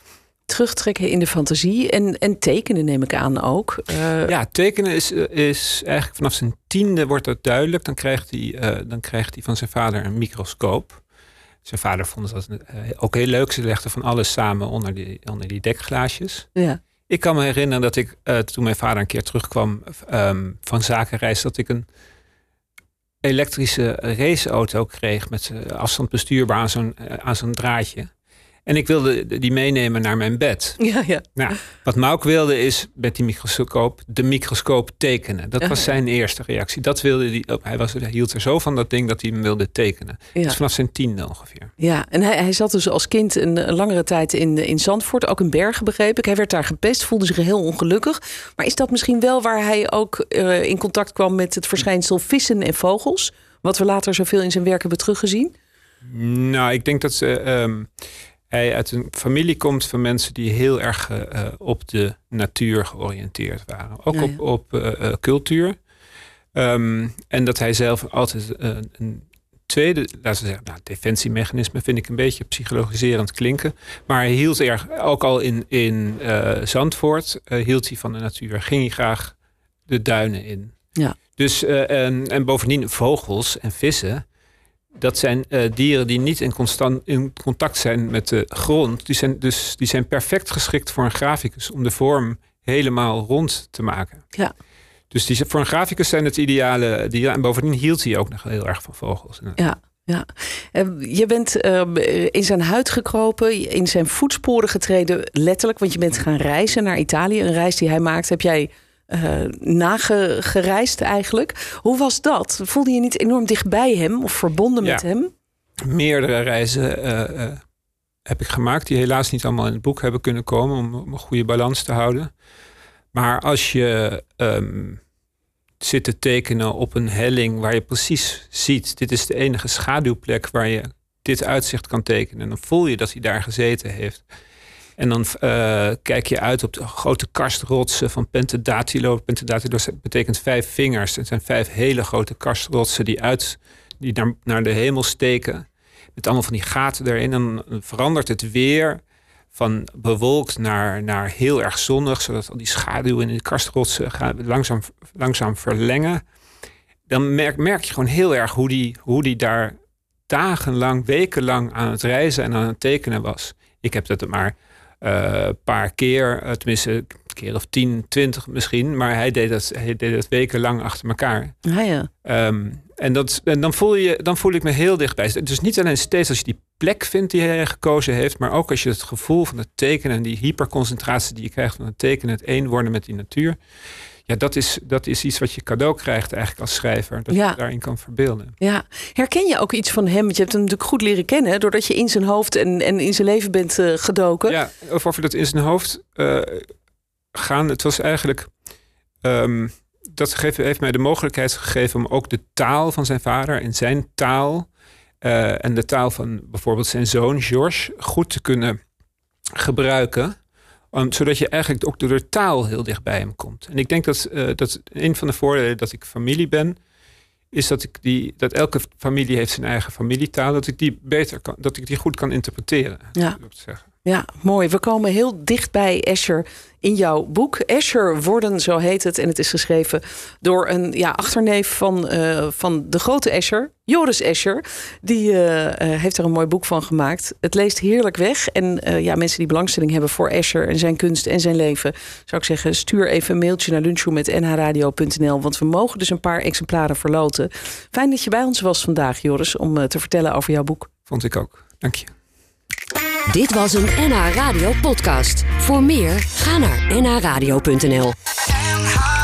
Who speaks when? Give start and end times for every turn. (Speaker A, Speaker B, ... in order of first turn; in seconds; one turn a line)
Speaker A: 0.5-4.3
Speaker B: 4.3-11.0
Speaker B: 11.6-16.5
Speaker B: 17.1-21.9
Speaker B: 23.2-28.1
Speaker B: 28.6-41.7
Speaker A: 30.8-31.5
Speaker A: 35.6-35.9
Speaker A: 41.8-55.5
Speaker B: 56.0-57.9
Speaker B: 58.5-65.8
Speaker B: 66.5-79.3
Speaker B: 79.9-80.7
Speaker B: 81.4-84.2
Speaker B: 85.0-94.2
Speaker B: 95.1-99.6
Speaker A: 99.5-115.3
Speaker B: 115.8-117.6
Speaker B: 118.2-122.3
Speaker B: 123.1-125.0
Speaker B: 125.8-134.2
Speaker B: 135.0-149.0
Speaker B: 149.5-156.2
Speaker B: 157.1-159.7
Speaker B: 160.3-171.6
Speaker A: 171.6-172.1
Speaker B: 172.2-183.6
Speaker B: 184.3-188.5
Speaker A: 187.3-187.6
Speaker A: 188.6-194.6
Speaker B: 194.5-196.7
Speaker B: 197.3-198.5
Speaker B: 199.2-204.7
Speaker B: 205.2-208.8
Speaker B: 209.6-210.3
Speaker B: 210.9-216.8
Speaker B: 217.5-223.8
Speaker A: 223.1-223.4
Speaker A: 224.0-250.9
Speaker B: 251.1-252.1
Speaker C: 253.3-258.1